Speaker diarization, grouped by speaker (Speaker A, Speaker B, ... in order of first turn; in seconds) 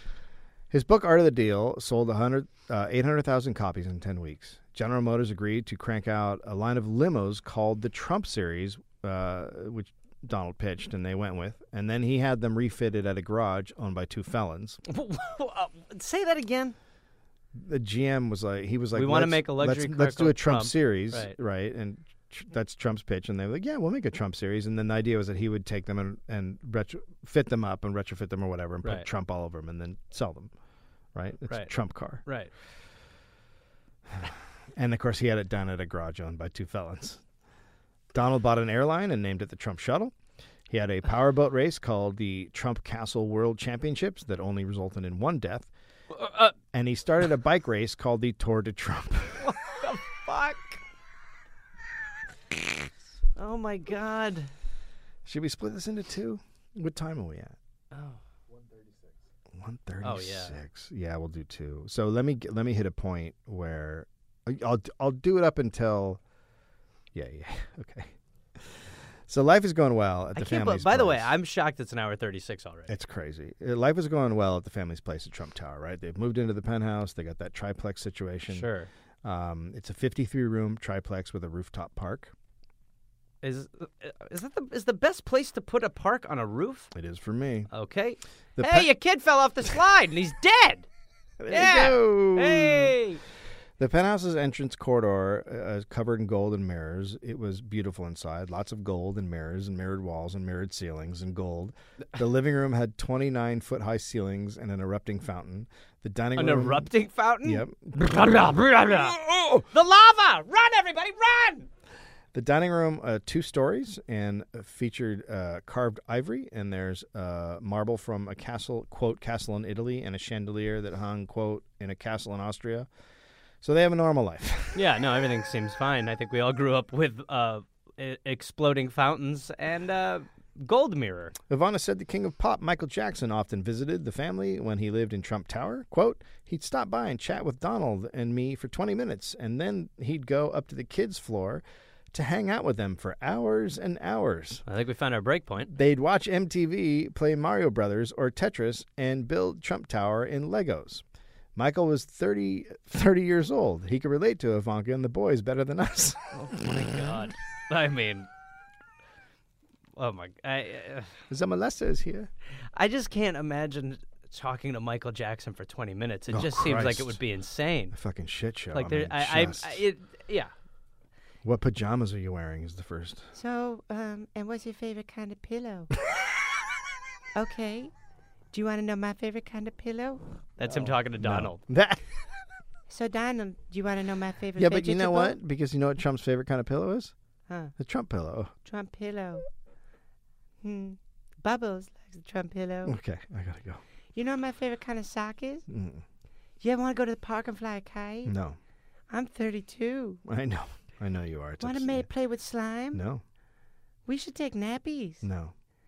Speaker A: 0.7-14.8, 17.5-30.5, 31.1-32.2, 34.1-37.2, 38.1-40.1, 40.7-45.7, 46.7-49.5, 55.2-57.5, 59.5-66.2, 67.1-71.3, 72.9-78.7, 79.2-82.3, 86.9-87.7, 88.6-88.9, 91.4-92.9, 93.8-106.9, 107.4-109.6, 112.3-122.9, 123.6-124.8, 131.5-144.6, 145.7-151.0, 151.6-157.1, 161.3-162.3, 166.3-167.2, 167.9-169.8, 171.4-173.3, 180.6-182.0, 184.6-187.1, 187.8-188.5, 192.8-193.8, 195.7-196.0, 198.2-198.6, 200.2-202.1, 202.9-203.2, 205.2-205.5
Speaker B: 14.9-16.7, 18.9-21.3, 32.2-32.5, 46.1-46.5, 49.4-50.8, 53.4-54.5, 57.9-58.2, 60.0-60.5, 70.3-72.9, 78.5-78.9, 83.4-86.9, 87.7-90.9, 91.5-93.2, 106.3-111.7, 124.7-131.3, 144.7-145.7, 156.3-158.3, 160.0-161.1, 162.7-167.9, 168.7-170.5, 180.6-181.6
Speaker C: 173.3-175.9, 177.3-177.9, 178.5-180.2, 182.9-185.3, 187.5-187.7, 188.6-189.4, 190.6-192.9, 194.1-195.7, 196.6-198.3, 199.1-200.2, 201.6-203.0, 204.1-205.2